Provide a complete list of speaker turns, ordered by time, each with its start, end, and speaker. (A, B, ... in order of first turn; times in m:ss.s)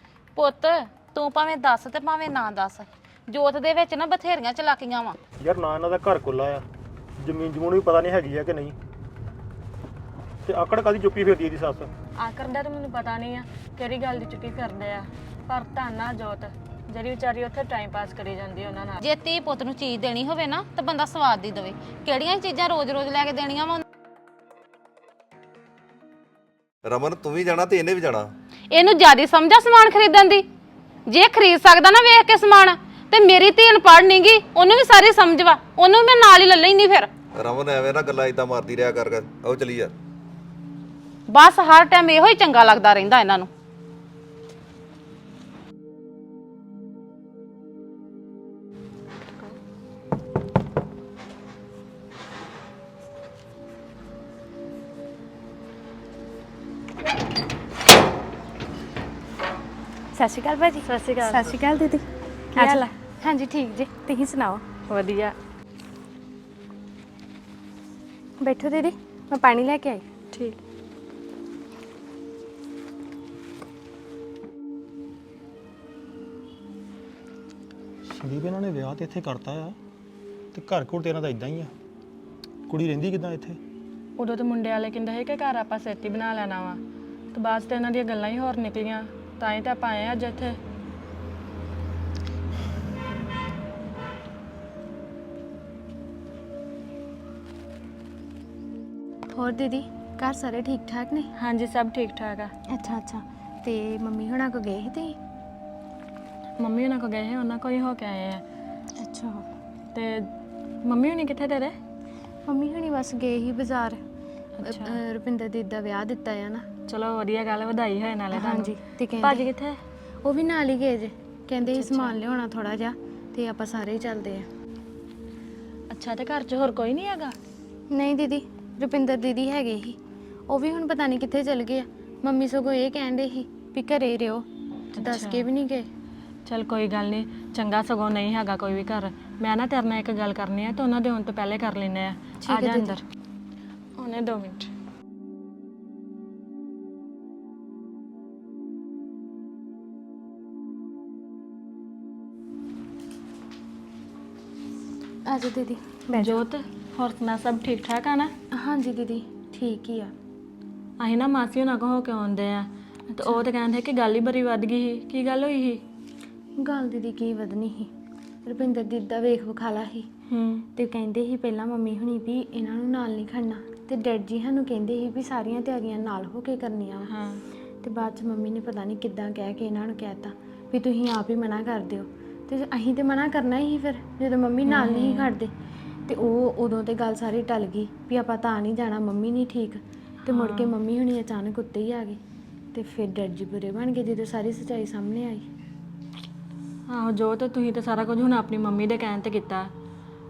0:00.4-0:05.2 A
0:05.4-0:06.6 B
0:07.2-0:08.7 B
0:10.4-0:11.9 B
0:12.2-0:19.0 C
0:19.0-0:23.8 A
0:26.8-0:28.3 D
0:28.7-0:30.4 A
0:31.1-0:37.1 A
0:37.4-0:39.9 D
0:41.3-0:43.5 A
1:00.1-1:02.0 E
1:00.8-1:01.6 C
1:02.6-1:04.7 E
1:02.6-1:02.9 C
1:04.9-1:05.3 C
1:08.4-1:10.0 E
1:10.3-1:10.6 C
1:18.1-1:19.8 B
1:20.5-1:21.7 B
1:22.7-1:23.6 B
1:24.2-1:26.8 C
1:27.3-1:30.6 C
1:39.3-1:41.3 E
1:41.4-1:42.5 C
1:42.7-1:45.2 E
1:46.6-1:48.4 C
1:49.0-1:49.4 E
1:49.9-1:50.3 C
1:50.8-1:51.7 C
1:52.4-1:54.0 E
1:54.6-1:55.0 C
1:54.6-1:56.6 E
1:56.9-1:59.8 C
1:58.3-1:59.6 E
2:00.2-2:04.5 E
2:01.6-2:02.2 C
2:05.9-2:07.3 C
2:07.9-2:10.0 E
2:10.5-2:14.4 E
2:15.0-2:15.9 E
2:15.0-2:15.5 C
2:16.5-2:23.0 C
2:22.4-2:23.0 E
2:24.0-2:24.7 C
2:35.2-2:36.4 E
2:36.2-2:38.3 C
2:38.5-2:40.1 E
2:41.0-2:45.8 C
2:43.2-2:43.4 E
2:46.6-2:47.9 E
2:48.5-2:50.1 E
2:50.3-2:50.7 C
2:50.8-2:57.1 E
2:57.1-2:57.4 C
2:57.8-3:05.5 E
3:04.7-3:05.3 C
3:06.1-3:12.2 E
3:10.3-3:10.8 C
3:12.7-3:15.5 E
3:16.9-3:19.7 C